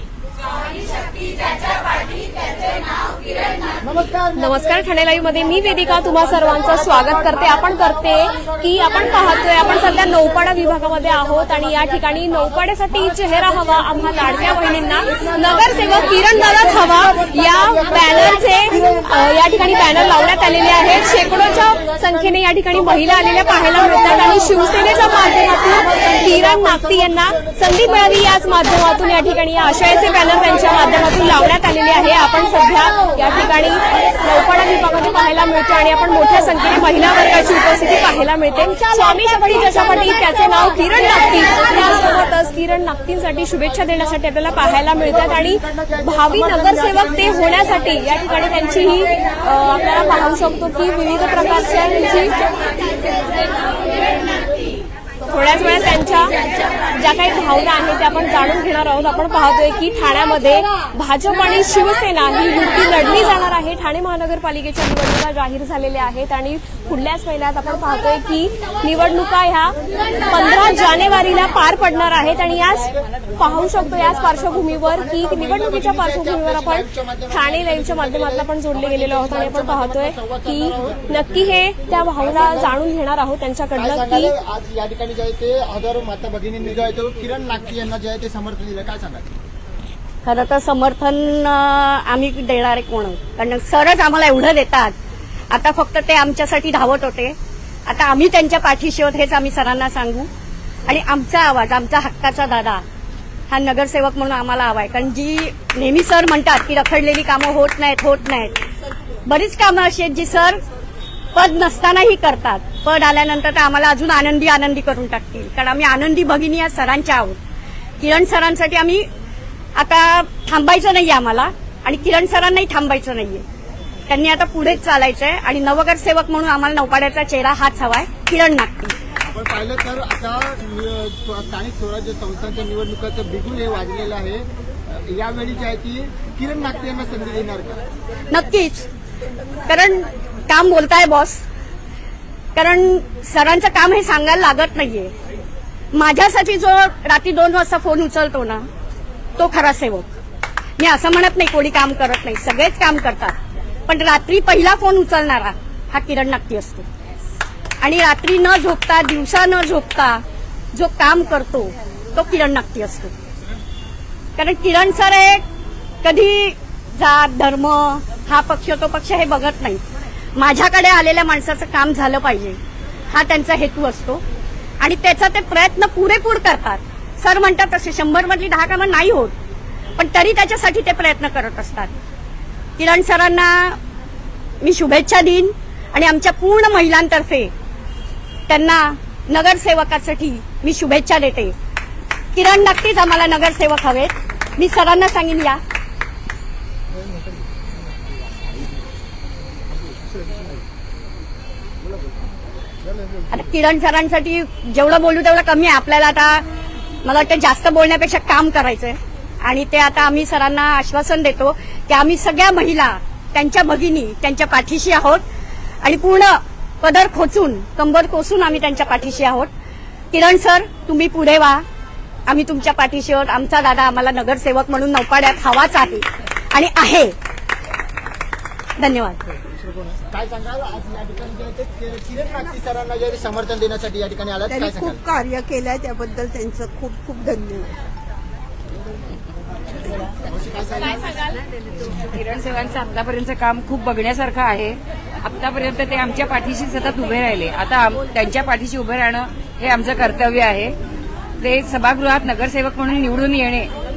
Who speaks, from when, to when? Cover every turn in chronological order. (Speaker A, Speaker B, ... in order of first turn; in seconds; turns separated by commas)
Speaker A: 3.8-4.8, Speaker B: 4.3-52.4, Speaker A: 7.2-7.6, Speaker A: 23.6-24.3, Speaker A: 26.0-26.4, Speaker A: 44.7-47.8, Speaker B: 55.3-56.4, Speaker B: 56.9-69.8, Speaker B: 70.3-84.3, Speaker A: 73.7-82.8, Speaker A: 83.8-89.3, Speaker C: 90.2-94.9, Speaker C: 95.5-97.3, Speaker C: 97.9-100.3, Speaker C: 100.9-102.8, Speaker C: 103.5-108.6, Speaker C: 109.3-110.6, Speaker C: 111.3-117.4, Speaker C: 118.0-119.1, Speaker C: 119.8-123.4, Speaker C: 124.1-129.0, Speaker A: 129.2-137.8, Speaker C: 138.3-138.9, Speaker C: 139.7-141.4, Speaker C: 142.6-145.1, Speaker C: 145.9-148.7, Speaker C: 149.4-150.1, Speaker C: 150.8-153.4, Speaker C: 153.9-156.9, Speaker C: 157.8-160.2, Speaker C: 160.7-163.1, Speaker C: 164.4-165.4, Speaker C: 166.0-169.8, Speaker C: 170.4-172.6, Speaker C: 173.1-174.2, Speaker C: 174.8-179.3, Speaker C: 180.0-181.9, Speaker C: 182.8-183.8, Speaker C: 184.6-187.5, Speaker C: 188.5-191.6, Speaker C: 192.3-195.6, Speaker C: 203.3-206.4, Speaker C: 207.0-215.2, Speaker C: 215.8-219.5, Speaker C: 220.1-221.6, Speaker C: 222.3-227.2, Speaker C: 228.8-229.2, Speaker A: 229.5-235.0, Speaker D: 234.5-237.7, Speaker A: 240.2-241.1, Speaker E: 241.1-250.8, Speaker E: 251.4-253.7